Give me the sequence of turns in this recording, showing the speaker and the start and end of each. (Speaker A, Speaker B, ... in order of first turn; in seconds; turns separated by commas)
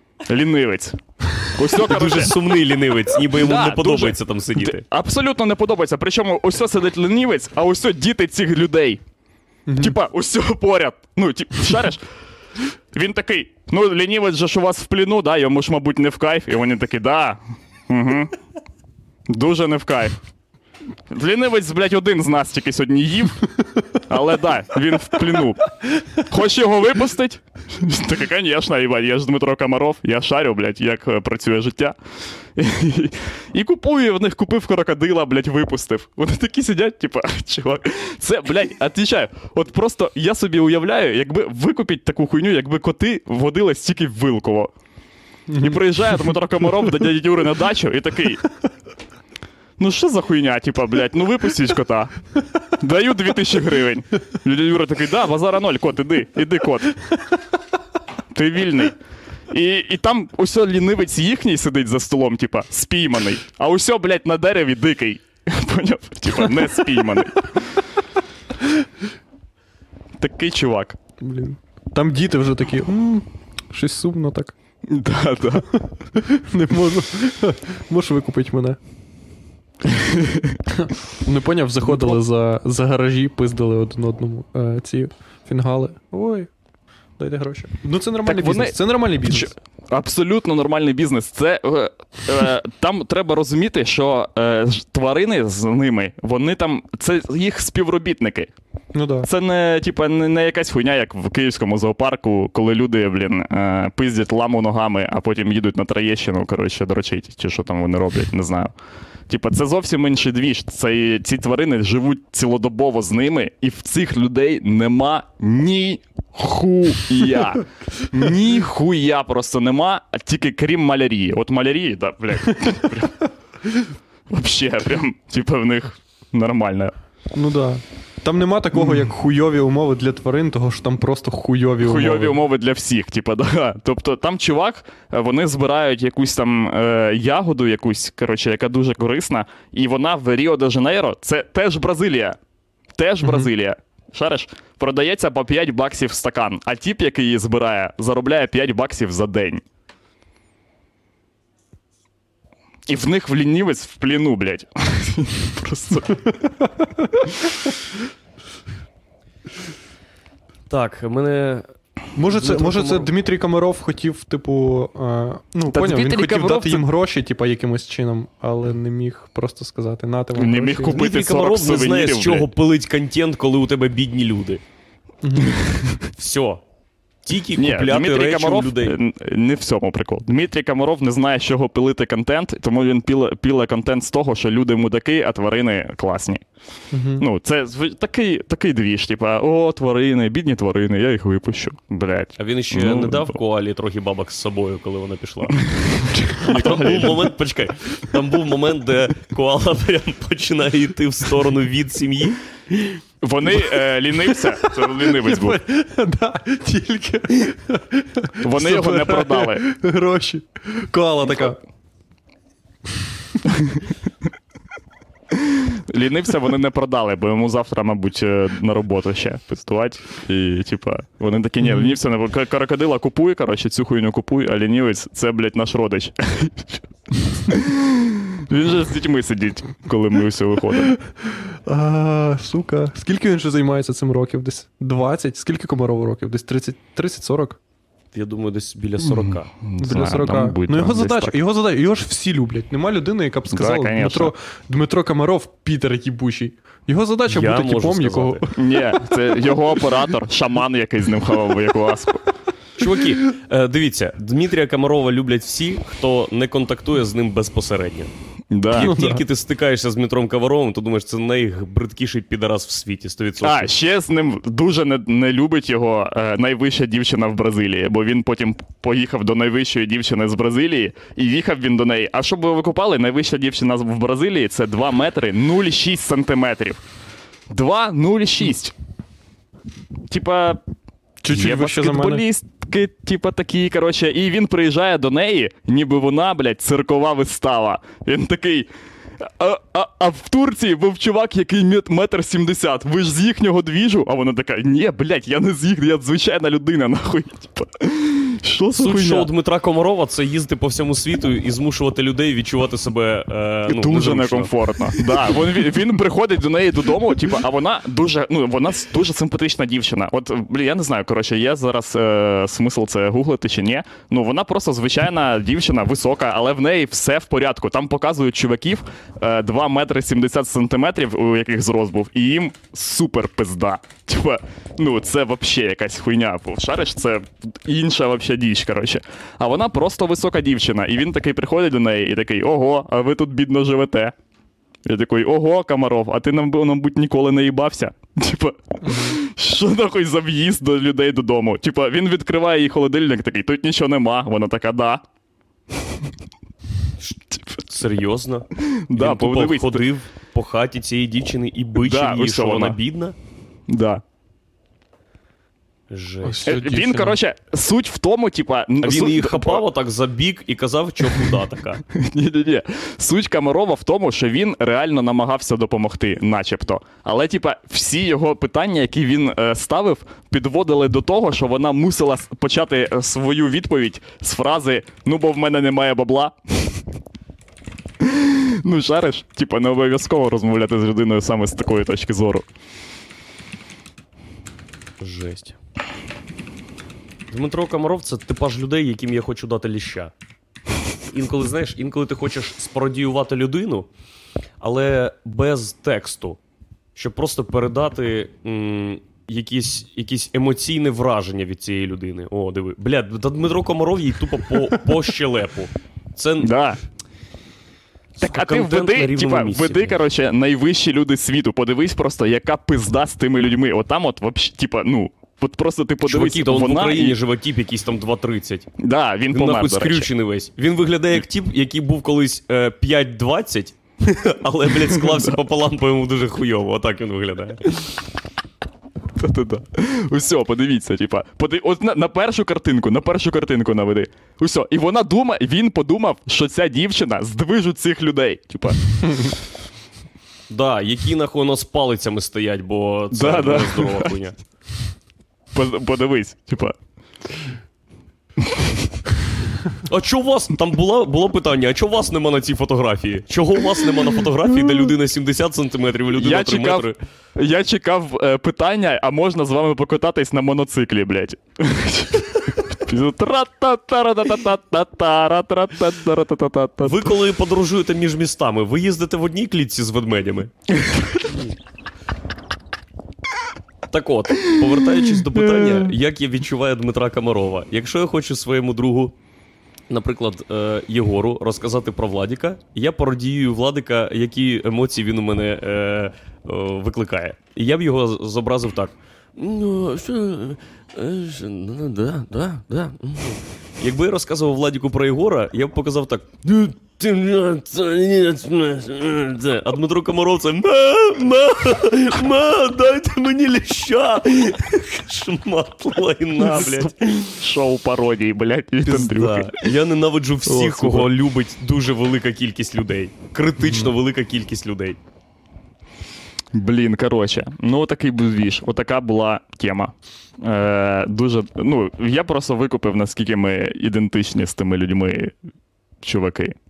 Speaker A: 0.3-2.6, Speaker B: 1.8-4.8, Speaker C: 3.4-4.1, Speaker A: 3.4-9.0, Speaker C: 9.7-9.9, Speaker A: 9.8-12.0, Speaker A: 12.9-18.3, Speaker A: 19.3-20.2, Speaker A: 21.1-32.0, Speaker A: 32.5-44.7, Speaker C: 45.5-46.3, Speaker A: 45.6-48.5, Speaker A: 49.8-52.1, Speaker A: 52.8-57.0, Speaker A: 58.3-59.0, Speaker A: 59.5-67.8, Speaker A: 70.2-71.0, Speaker C: 71.2-74.5, Speaker A: 74.9-75.7, Speaker C: 76.2-78.8, Speaker A: 79.9-80.6, Speaker C: 80.7-86.5, Speaker A: 81.9-82.2, Speaker C: 87.2-89.5, Speaker A: 88.2-98.5, Speaker C: 98.9-99.3, Speaker A: 99.2-108.7, Speaker A: 109.3-123.2, Speaker A: 124.3-126.9, Speaker C: 127.3-132.4, Speaker A: 131.8-142.4, Speaker A: 143.0-149.6, Speaker C: 143.2-143.5, Speaker A: 152.9-156.2, Speaker B: 160.7-161.7, Speaker C: 162.2-171.0, Speaker B: 162.3-163.1, Speaker A: 165.7-166.8, Speaker A: 170.4-172.5, Speaker B: 170.9-174.6, Speaker C: 175.2-175.6, Speaker B: 176.1-176.6, Speaker B: 177.2-179.0, Speaker A: 177.6-186.4, Speaker C: 186.9-187.2, Speaker A: 187.2-193.3, Speaker B: 192.4-203.0, Speaker A: 195.7-197.3, Speaker A: 203.2-205.6, Speaker C: 204.2-211.6, Speaker A: 208.4-209.7, Speaker A: 215.4-231.0, Speaker C: 221.7-222.0, Speaker C: 231.1-237.6, Speaker B: 238.1-239.5, Speaker A: 239.0-241.4, Speaker C: 239.8-249.3, Speaker A: 243.5-244.3, Speaker B: 247.3-248.5, Speaker A: 248.6-252.3, Speaker B: 252.8-258.1, Speaker A: 258.5-258.9, Speaker B: 258.7-263.7, Speaker C: 258.7-259.2, Speaker A: 263.4-276.8, Speaker A: 277.5-278.7, Speaker A: 280.1-280.6, Speaker C: 281.2-282.2, Speaker A: 281.3-299.3, Speaker B: 298.8-304.5, Speaker A: 303.7-334.1, Speaker A: 334.9-345.0, Speaker C: 338.8-339.2, Speaker B: 347.0-353.2, Speaker A: 348.9-349.9, Speaker A: 351.8-352.8, Speaker A: 353.7-354.0, Speaker B: 355.9-356.5, Speaker C: 356.2-357.2, Speaker A: 356.5-359.6, Speaker B: 358.8-361.8, Speaker A: 361.9-376.8, Speaker A: 378.0-382.4, Speaker B: 385.0-385.6, Speaker B: 387.3-390.1, Speaker B: 391.1-393.9, Speaker B: 394.6-396.4, Speaker B: 396.9-406.5, Speaker A: 406.4-406.8, Speaker B: 408.2-410.0, Speaker A: 408.2-417.2, Speaker B: 416.1-418.7, Speaker A: 418.8-420.1, Speaker B: 419.3-427.6, Speaker A: 429.2-439.4, Speaker B: 440.5-444.4, Speaker A: 443.1-444.1, Speaker A: 445.5-446.8, Speaker B: 449.9-457.0, Speaker A: 456.1-467.2, Speaker B: 466.8-470.5, Speaker B: 471.2-471.6, Speaker B: 473.9-479.2, Speaker B: 479.9-507.3, Speaker A: 506.4-509.6, Speaker B: 508.9-515.0, Speaker A: 510.5-511.1, Speaker C: 513.6-513.9, Speaker A: 516.5-525.3, Speaker A: 526.0-526.5